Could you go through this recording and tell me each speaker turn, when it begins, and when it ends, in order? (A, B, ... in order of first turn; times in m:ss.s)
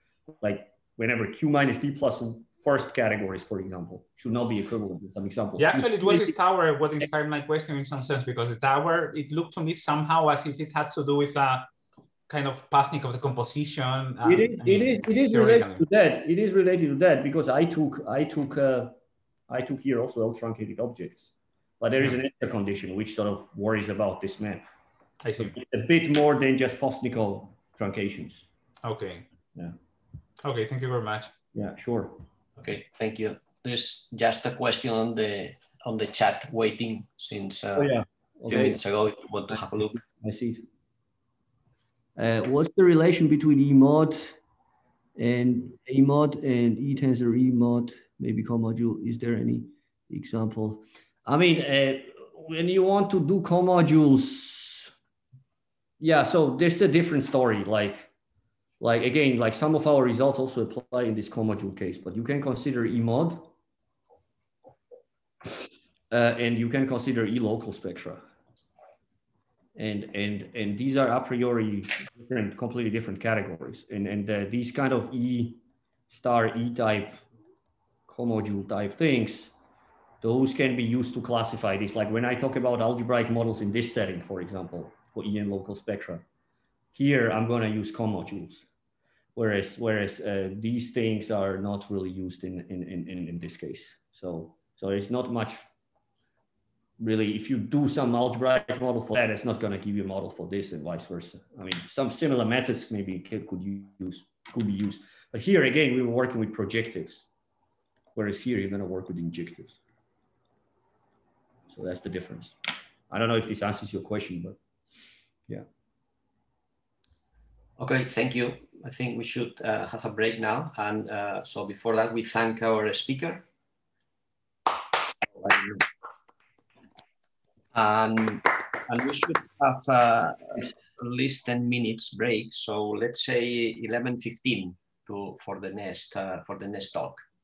0:00.4-0:06.4 A
0:05.6-0:11.7 B
0:12.3-0:15.8 B
0:14.2-0:19.0 A
0:19.5-0:24.6 A
0:25.2-0:25.6 B
0:25.4-0:28.5 A
0:28.8-0:29.3 B
0:30.4-0:31.3 B
0:31.5-0:32.2 A
0:32.6-0:37.9 C
0:37.8-0:38.8 A
0:38.5-0:40.0 C
0:40.0-0:40.6 A
0:42.2-0:44.4 A
0:45.2-0:54.9 A
0:56.0-0:58.1 A
0:58.8-1:03.5 A
1:06.1-1:08.2 A
1:09.8-1:17.2 A
1:18.1-1:19.5 A
1:20.2-1:26.2 A
1:26.9-1:28.7 A
1:29.4-1:35.6 A
1:37.0-1:47.3 A
1:48.2-1:49.8 A
1:51.7-1:52.6 A
1:53.1-1:54.6 A
1:57.8-2:03.5 C
2:07.7-2:17.2 C